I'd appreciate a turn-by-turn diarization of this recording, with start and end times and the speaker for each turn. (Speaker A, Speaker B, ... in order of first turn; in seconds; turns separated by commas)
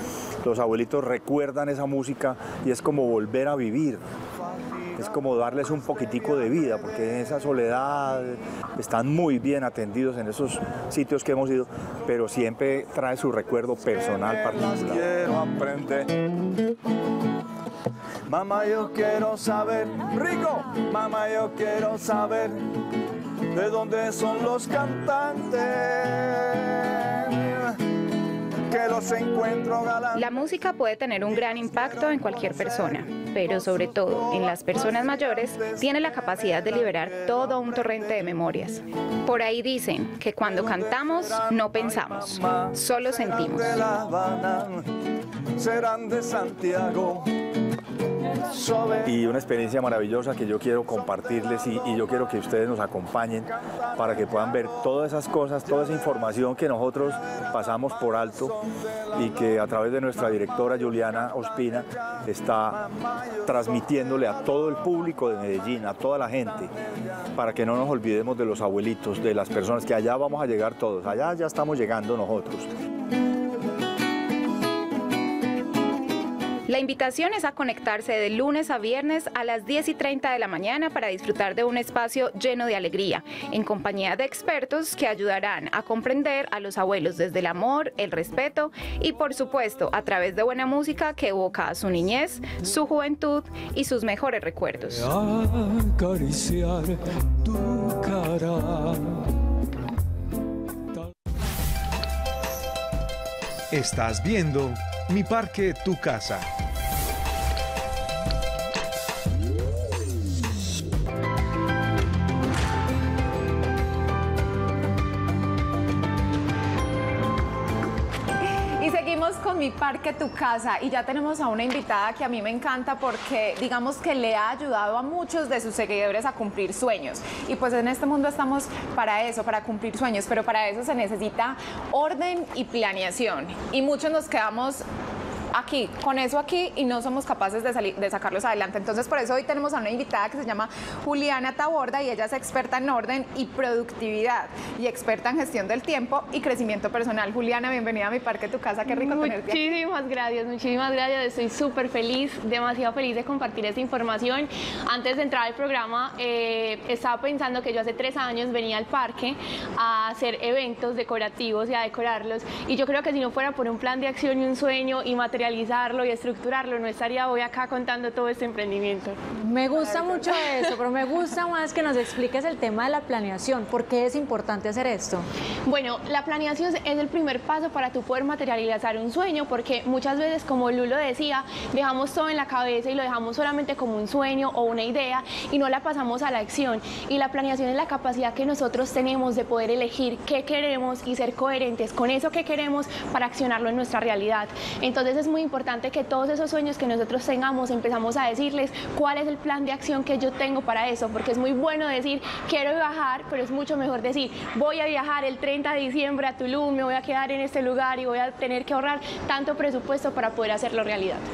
Speaker A: 0.4-4.0, Speaker A: 5.0-15.0, Speaker B: 13.9-16.2, Speaker B: 18.3-22.6, Speaker B: 23.5-27.6, Speaker B: 28.7-30.3, Speaker C: 30.2-43.8, Speaker B: 31.6-35.9, Speaker B: 37.1-37.4, Speaker B: 40.5-41.6, Speaker B: 42.3-44.9, Speaker B: 45.5-47.3, Speaker B: 48.5-49.1, Speaker A: 49.0-58.5, Speaker A: 59.1-62.8, Speaker A: 63.4-66.7, Speaker A: 67.3-72.7, Speaker C: 76.7-95.1, Speaker D: 94.9-99.2, Speaker E: 103.7-106.4, Speaker F: 118.8-134.8, Speaker F: 135.5-149.7, Speaker G: 148.9-169.2, Speaker H: 169.4-175.3, Speaker G: 170.0-170.7, Speaker G: 175.6-211.2